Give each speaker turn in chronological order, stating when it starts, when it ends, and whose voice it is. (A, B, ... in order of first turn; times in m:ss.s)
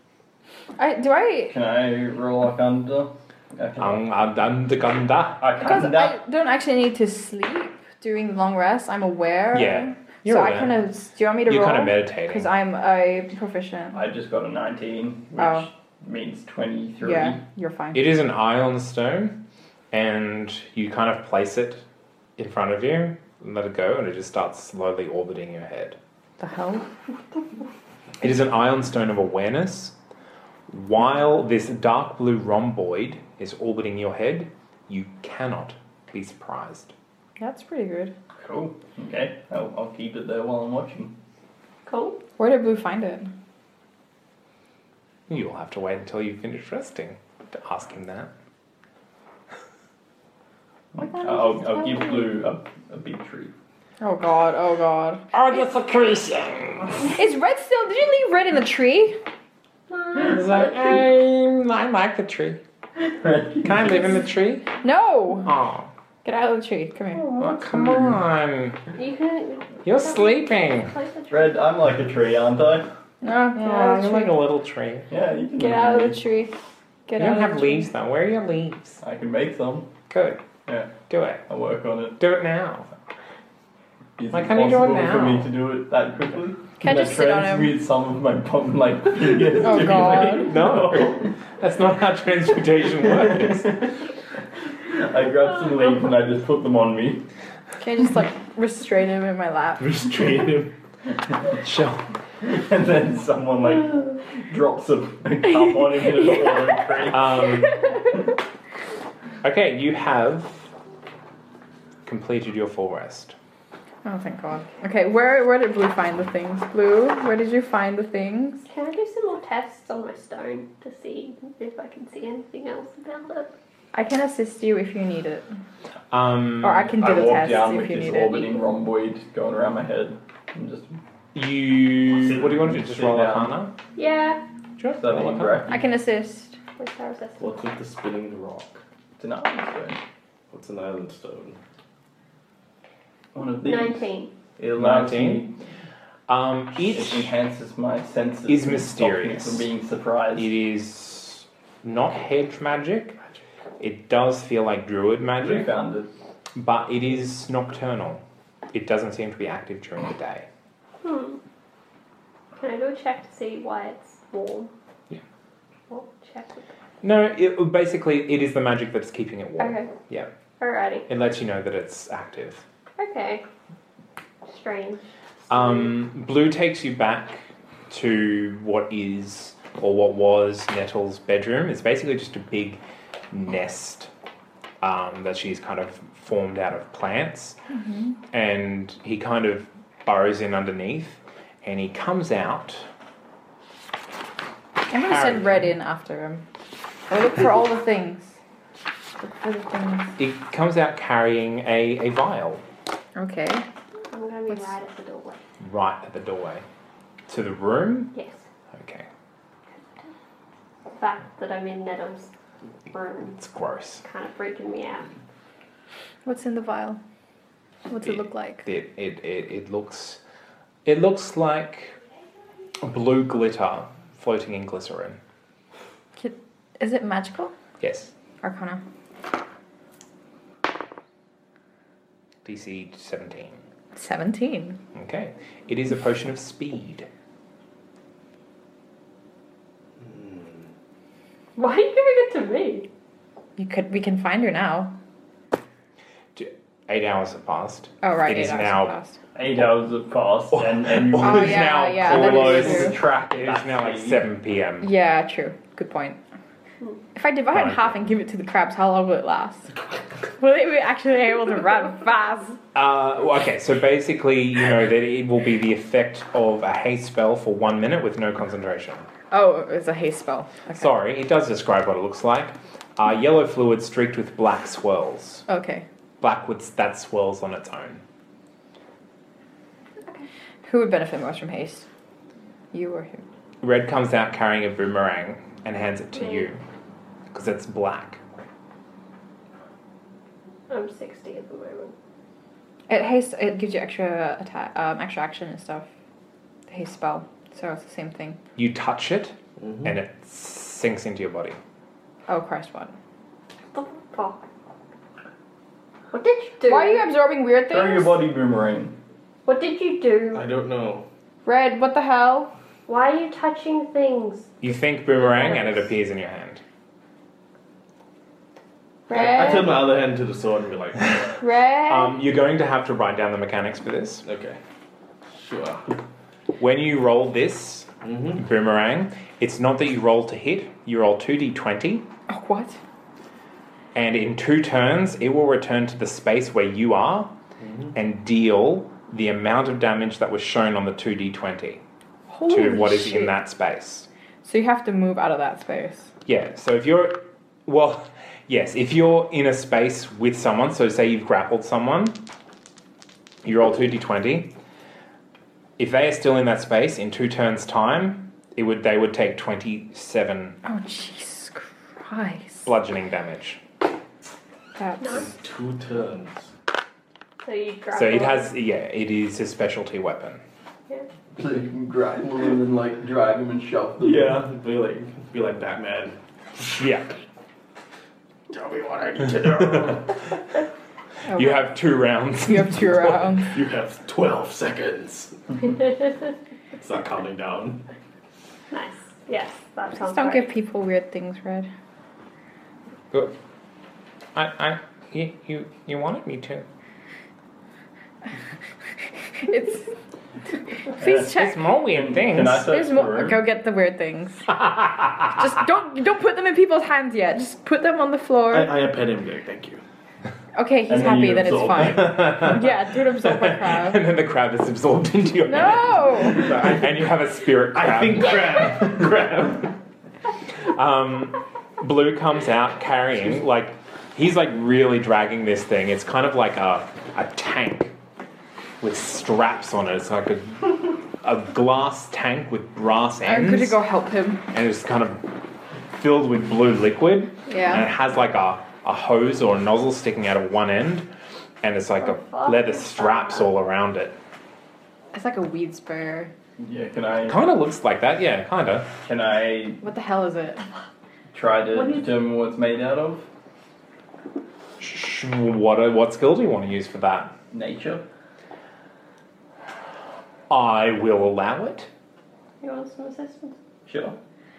0:00.8-0:01.5 A
0:01.5-0:04.2 B
0:03.8-0:05.5 C
0:05.4-0:06.2 B
0:05.6-0:14.0 A
0:09.5-0:10.9 C
0:11.4-0:12.5 C
0:13.9-0:17.4 B
0:15.4-0:15.7 A
0:17.0-0:18.2 A
0:17.9-0:19.4 C
0:19.9-0:21.8 C
0:22.4-0:26.0 C
0:26.4-0:26.9 A
0:28.2-0:29.9 C
0:30.7-0:36.9 C
0:37.4-0:38.1 A
0:38.4-0:41.1 B
0:41.8-0:42.2 D
0:42.4-0:43.3 A
0:45.3-0:48.3 C
0:50.9-0:53.5 B
0:51.0-0:52.3 A
0:54.0-0:55.2 A
0:55.3-0:57.2 C
0:57.2-0:59.2 A
0:59.9-1:00.8 D
1:00.1-1:02.6 C
1:03.0-1:04.3 B
1:03.6-1:04.7 C
1:04.8-1:05.5 A
1:05.4-1:05.9 C
1:06.2-1:07.3 A
1:07.2-1:08.2 B
1:07.4-1:08.8 C
1:09.0-1:11.7 D
1:09.8-1:10.9 C
1:11.3-1:12.9 B
1:13.2-1:14.4 A
1:13.5-1:15.1 C
1:15.1-1:16.2 B
1:15.6-1:16.5 A
1:17.1-1:17.9 A
1:17.2-1:19.0 C
1:19.0-1:19.9 B
1:20.1-1:20.4 C
1:20.7-1:20.9 B
1:21.1-1:21.4 C
1:21.5-1:22.2 B
1:22.2-1:22.9 C
1:24.2-1:31.3 B
1:24.3-1:25.5 C
1:26.8-1:27.8 A
1:29.6-1:30.5 A
1:30.4-1:33.8 C
1:33.2-1:33.4 B
1:34.9-1:37.2 B
1:37.8-1:39.8 A
1:39.8-1:40.7 E
1:41.5-1:42.0 C
1:42.4-1:47.5 B
1:46.2-1:46.9 A
1:47.1-1:47.8 C
1:49.4-1:50.7 C
1:52.0-1:53.4 C
1:54.0-1:58.6 A
1:58.7-2:03.5 D
2:03.9-2:05.5 A
2:06.1-2:07.0 C
2:06.6-2:08.6 A
2:07.0-2:11.0 B
2:11.4-2:13.7 C
2:12.0-2:13.6 B
2:14.0-2:14.4 D
2:14.8-2:15.7 C
2:15.0-2:15.8 B
2:15.7-2:16.6 A
2:16.8-2:17.5 D
2:17.4-2:18.8 E
2:19.2-2:20.0 B
2:20.5-2:21.6 E
2:23.4-2:25.6 B
2:23.6-2:24.3 D
2:24.8-2:25.5 C
2:26.3-2:27.3 C
2:26.8-2:30.5 B
2:28.5-2:29.7 C
2:30.4-2:33.2 C
2:33.8-2:35.7 C
2:35.4-2:36.1 B
2:36.5-2:38.2 C
2:38.7-2:40.4 C
2:41.0-2:41.4 D
2:42.6-2:44.7 D
2:45.9-2:46.7 D
2:47.0-2:50.3 C
2:49.6-2:50.0 D
2:50.6-2:51.1 D
2:51.1-2:52.6 C
2:53.0-2:53.4 D
2:54.4-2:55.0 D
2:55.5-3:04.1 C
3:04.8-3:07.6 C
3:07.7-3:08.2 A
3:08.3-3:12.9 C
3:14.9-3:16.4 A
3:14.9-3:15.7 C
3:17.1-3:18.4 A
3:19.2-3:20.1 A
3:20.2-3:22.6 C
3:23.2-3:23.6 A
3:24.1-3:25.4 D
3:25.6-3:26.6 C
3:27.3-3:28.1 C
3:28.1-3:28.4 D
3:28.7-3:29.1 C
3:29.7-3:30.1 D
3:30.9-3:32.3 D
3:32.9-3:33.4 D
3:33.4-3:34.0 C
3:34.0-3:35.1 D
3:36.2-3:37.0 A
3:37.9-3:38.7 A
3:38.0-3:40.2 C
3:40.8-3:42.0 C
3:42.8-3:45.2 C
3:46.2-3:47.5 A
3:47.8-3:48.1 C
3:48.4-3:48.8 A
3:52.4-3:53.6 C
3:53.9-3:54.8 A
3:54.9-3:57.1 C
4:00.0-4:00.7 E
4:01.6-4:02.9 D
4:03.6-4:04.9 A
4:06.4-4:09.0 C
4:08.0-4:09.2 A
4:09.4-4:14.2 B
4:10.5-4:14.9 C
4:11.2-4:13.0 A
4:14.8-4:16.2 A
4:17.1-4:19.7 A
4:17.5-4:18.0 C
4:20.4-4:22.6 A
4:22.7-4:29.0 C
4:29.3-4:30.9 A
4:30.7-4:35.4 C
4:35.5-4:35.8 A
4:36.2-4:38.0 C
4:40.6-4:41.9 A
4:42.7-4:43.2 A
4:43.6-4:46.6 C
4:46.2-4:46.5 D
4:47.3-4:48.2 C
4:50.7-4:51.9 D
4:52.9-4:55.9 A
4:56.7-4:58.4 A
4:58.6-5:01.6 C
4:59.6-5:00.0 E
5:02.3-5:02.9 A
5:03.7-5:04.4 D
5:06.1-5:07.0 D
5:06.6-5:08.2 A
5:07.7-5:08.9 B
5:09.4-5:10.4 D
5:10.3-5:11.0 E
5:11.4-5:12.5 A
5:12.9-5:14.5 D
5:14.6-5:16.6 C
5:15.2-5:15.9 D
5:19.1-5:19.8 D
5:19.1-5:21.3 E
5:19.1-5:19.6 A
5:21.4-5:22.2 A
5:21.8-5:24.2 C
5:24.2-5:24.6 E
5:25.3-5:26.0 E
5:26.6-5:32.0 C
5:28.0-5:28.4 E
5:32.3-5:32.8 A
5:33.9-5:37.3 C
5:37.6-5:38.0 E
5:37.9-5:41.8 C
5:42.3-5:43.4 A
5:42.5-5:44.1 C
5:44.4-5:46.1 A
5:46.2-5:52.2 C
5:53.4-5:54.5 C
5:55.8-6:00.6 C
6:00.6-6:02.7 A
6:02.6-6:03.6 C
6:04.8-6:05.2 A
6:05.0-6:05.3 D
6:05.1-6:06.5 E
6:07.4-6:08.5 D
6:07.9-6:10.4 C
6:11.4-6:14.4 B
6:14.0-6:16.2 E
6:16.7-6:17.1 C
6:18.5-6:20.2 E
6:19.6-6:19.9 C
6:21.3-6:21.6 A
6:21.3-6:23.5 C
6:22.4-6:23.5 A
6:23.5-6:25.4 E
6:26.7-6:27.8 E
6:28.7-6:30.5 D
6:30.0-6:31.7 A
6:34.4-6:36.6 C
6:39.4-6:39.9 A
6:40.9-6:41.6 A
6:41.2-6:42.7 C
6:41.9-6:43.4 B
6:42.6-6:44.5 A
6:44.5-6:45.3 C
6:45.4-6:48.7 A
6:48.5-6:49.8 E
6:50.5-6:54.0 A
6:50.9-6:52.4 B
6:51.8-6:59.0 C
6:55.4-6:56.4 A
6:56.3-6:59.7 E
7:00.7-7:07.9 C
7:03.1-7:03.4 E
7:08.8-7:13.8 C
7:13.2-7:14.4 A
7:14.5-7:21.1 C
7:17.5-7:17.8 A
7:21.6-7:24.1 C
7:22.0-7:23.5 D
7:25.1-7:26.3 A
7:26.6-7:27.4 B
7:27.2-7:28.9 C
7:29.0-7:29.8 B
7:29.8-7:30.7 A
7:31.3-7:33.3 B
7:31.7-7:32.1 D
7:34.8-7:37.3 C
7:37.5-7:38.0 B
7:40.5-7:41.9 C
7:42.6-7:43.6 D
7:43.9-7:44.2 B